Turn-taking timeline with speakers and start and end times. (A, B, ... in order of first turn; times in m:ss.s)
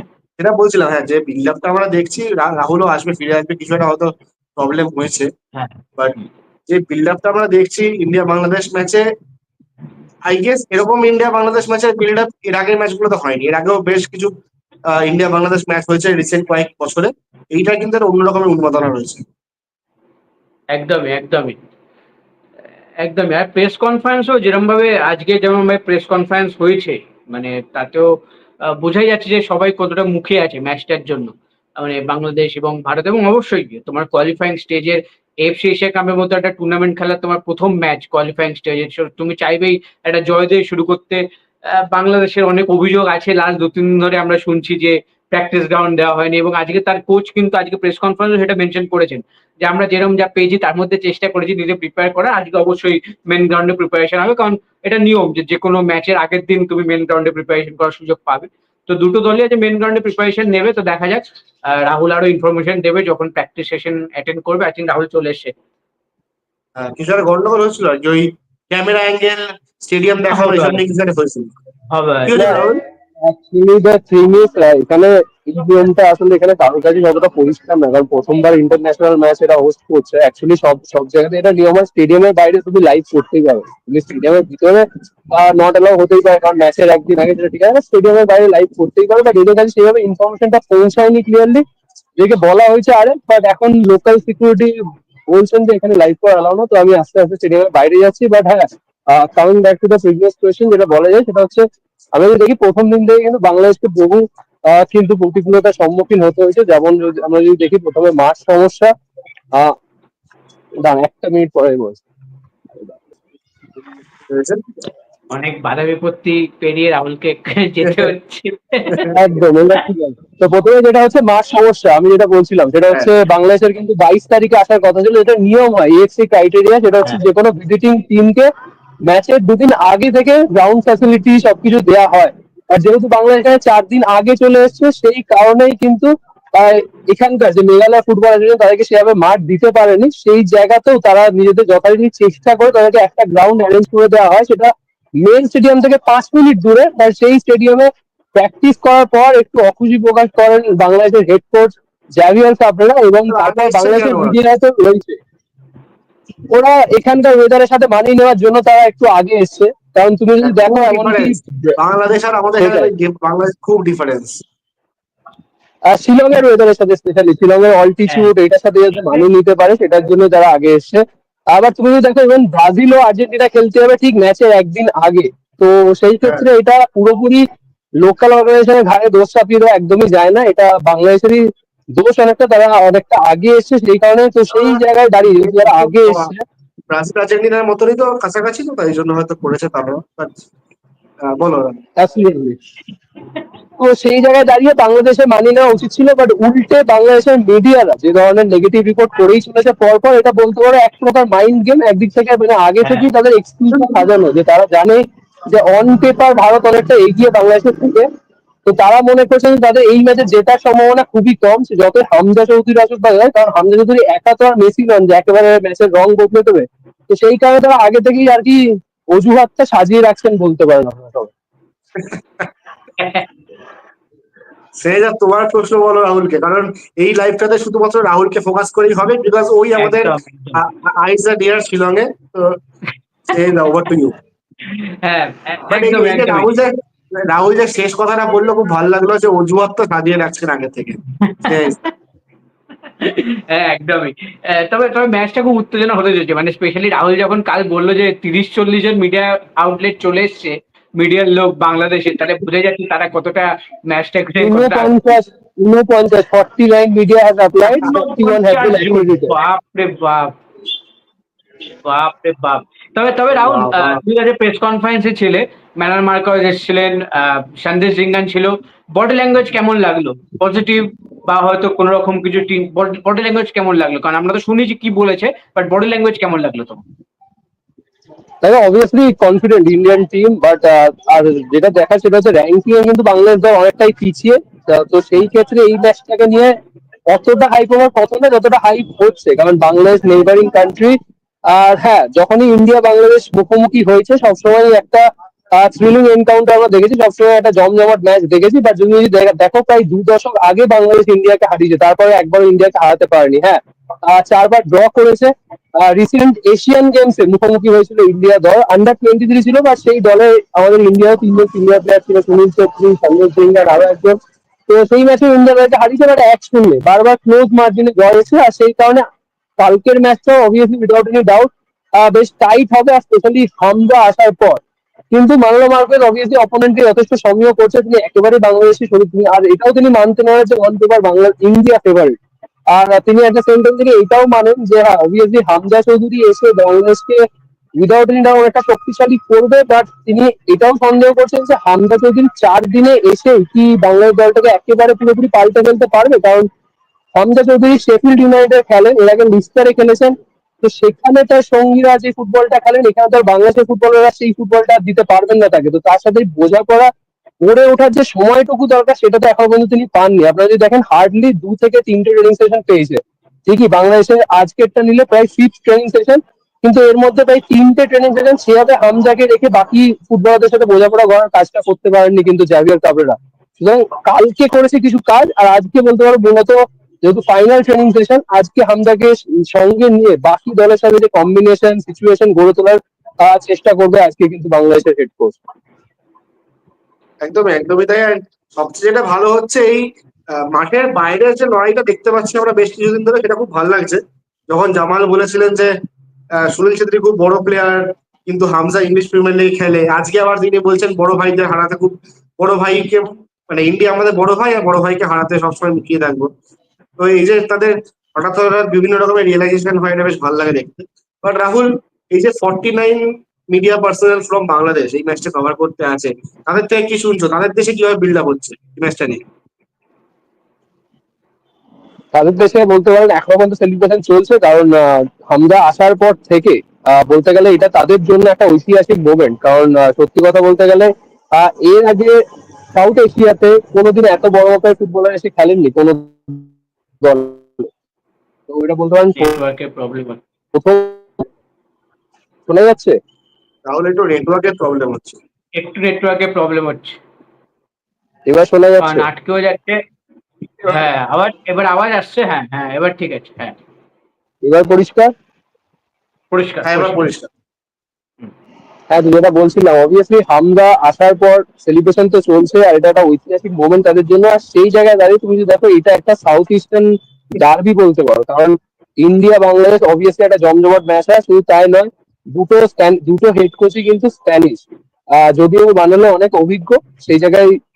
0:00.4-0:05.3 A
0:05.5-0:06.3 B
0:06.7-0:09.0 A
0:10.3-0:14.3 A
0:14.9-0:19.2 A
0:20.7-0:21.6 B
0:23.0-1:05.5 B
1:06.8-1:11.5 A
1:10.3-1:10.8 B
1:11.9-1:12.5 B
1:12.3-1:12.8 A
1:12.3-1:12.6 C
1:13.2-1:31.6 C
1:32.2-1:34.8 C
1:35.3-1:48.9 C
1:50.8-1:52.0 C
1:54.3-1:54.6 A
1:55.3-1:59.1 B
1:59.1-2:08.5 C
2:09.0-2:35.2 C
2:33.3-2:34.4 A
2:36.5-2:41.8 C
2:40.4-2:44.4 A
2:42.6-2:42.9 C
2:45.9-2:57.4 C
2:58.0-3:06.4 C
3:04.5-3:06.3 A
3:06.9-3:10.4 A
3:11.2-3:11.8 A
3:12.0-3:12.6 C
3:13.8-3:28.1 C
3:28.6-3:41.3 C
3:44.8-3:52.6 A
3:49.7-3:50.6 B
3:53.3-3:54.1 A
3:54.6-3:56.5 B
3:55.7-4:01.8 A
4:01.2-4:01.7 B
4:03.0-4:15.0 B
4:14.4-4:19.3 C
4:17.7-4:20.3 B
4:21.8-4:36.8 B
4:23.3-4:24.0 A
4:38.4-4:46.5 C
4:47.1-5:14.2 C
5:14.7-5:19.0 C
5:19.6-5:32.2 C
5:32.7-5:37.3 C
5:37.8-5:46.5 C
5:47.1-5:56.9 C
5:57.4-6:25.4 C
6:27.2-6:35.7 A
6:36.4-6:46.3 A
6:47.0-6:59.2 A
7:02.1-7:12.2 C
7:12.7-7:16.5 C
7:17.0-7:17.7 C
7:18.5-7:19.4 C
7:19.2-7:20.2 B
7:20.5-7:21.2 C
7:22.5-7:23.0 C
7:23.7-7:25.2 A
7:25.5-7:27.0 B
7:28.3-7:29.1 C
7:28.8-7:29.8 B
7:30.6-7:33.6 B
7:34.4-7:35.1 C
7:36.3-7:37.0 B
7:36.6-7:37.3 A
7:38.9-7:57.6 C